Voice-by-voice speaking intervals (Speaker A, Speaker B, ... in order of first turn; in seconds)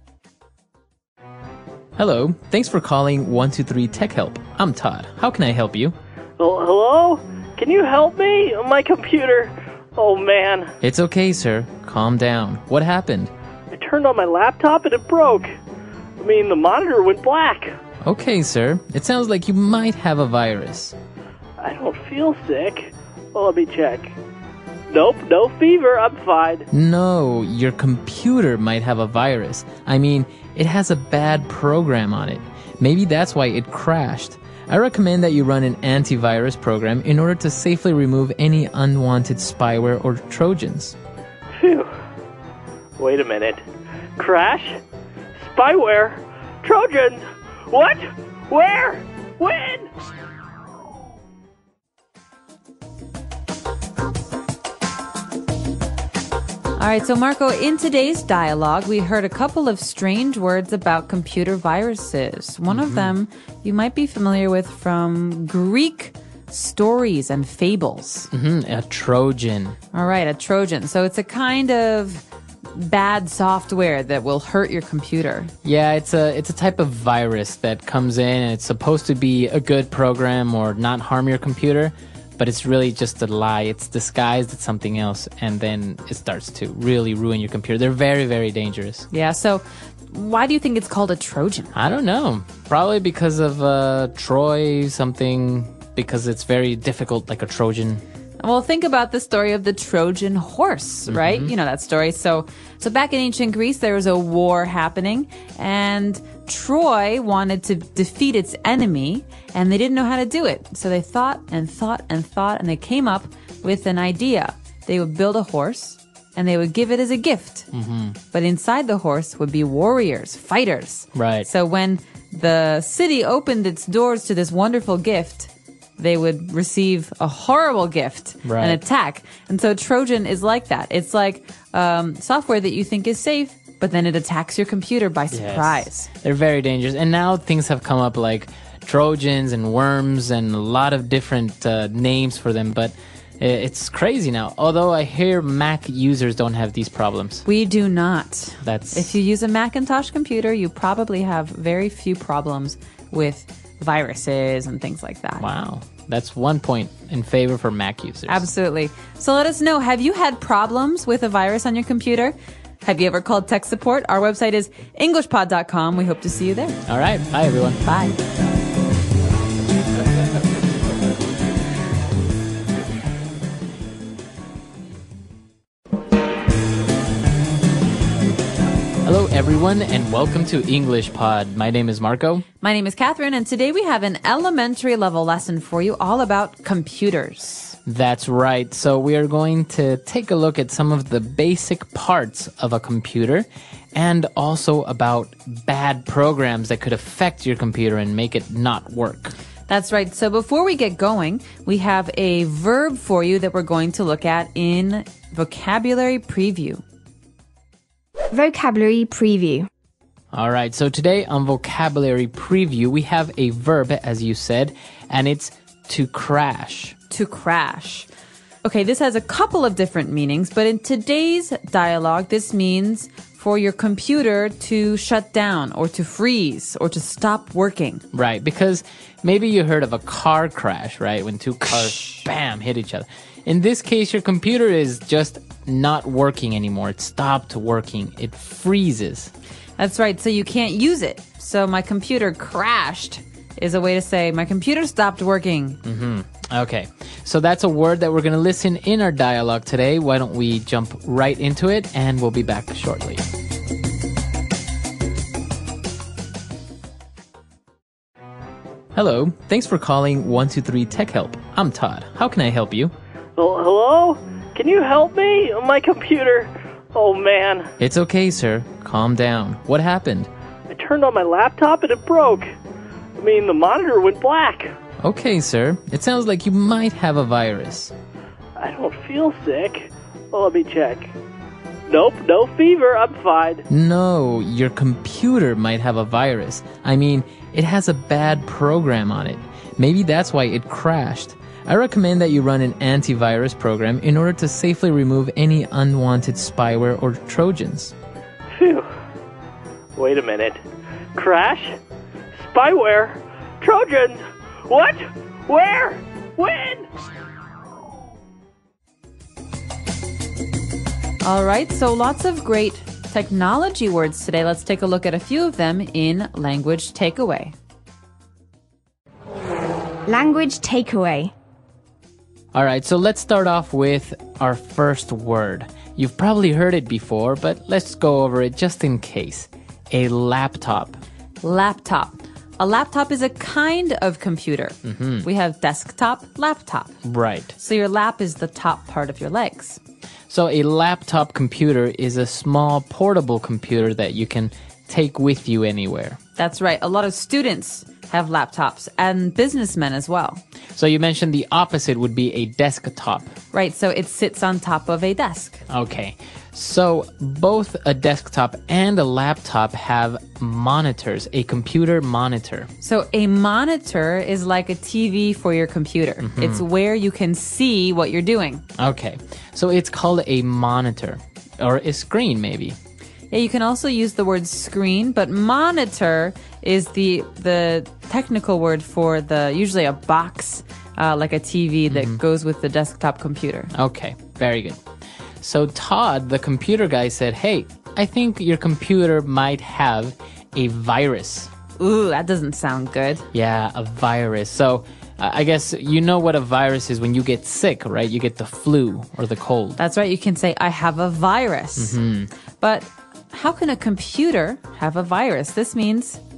Speaker A: 2.0-6.0, 10.8-13.3, 18.0-21.0, 26.7-41.0, 62.7-63.1, 68.3-69.8, 75.6-89.1, 91.7-98.0, 101.1-101.5, 117.7-118.2, 121.1-121.5, 128.4-128.8, 135.3-147.4, 148.6-149.1, 155.4-158.4, 166.9-167.8, 179.0-182.5, 187.9-199.4, 210.3-217.0, 228.1-239.3, 245.8-253.2, 258.9-262.9, 267.8-270.3, 275.0-277.9, 283.7-297.9, 322.5-331.0, 334.8-335.2, 337.0-337.6, 340.3-346.2, 350.8-353.4, 355.7-362.7, 366.2-366.6, 368.8-372.8, 381.9-382.2, 383.7-384.8, 385.4-391.5, 393.3-399.8, 401.8-402.3
Speaker B: 6.4-10.7, 13.7-15.5, 16.2-17.8, 21.6-24.1, 24.9-26.7, 41.5-41.9, 43.0-43.6, 44.2-44.8, 45.4-49.9, 263.4-267.7, 270.7-272.5, 273.2-274.7, 278.6-281.1, 281.9-283.6, 298.5-298.9, 300.0-300.6, 301.1-301.8, 302.3-306.9
Speaker C: 56.8-68.3, 69.9-75.5, 89.1-91.7, 98.4-117.7, 118.3-136.1, 147.4-155.4, 158.3-166.8, 167.8-168.2, 182.6-187.8, 199.7-206.8, 217.1-218.1, 218.6-228.0, 239.8-245.8, 311.2-317.6, 331.4-337.0, 337.6-339.8, 346.4-350.4, 353.5-355.6, 362.8-368.6, 373.3-383.7, 391.8-393.3, 399.8-402.0, 402.6-406.2
Speaker D: 208.3-209.7, 320.1-321.3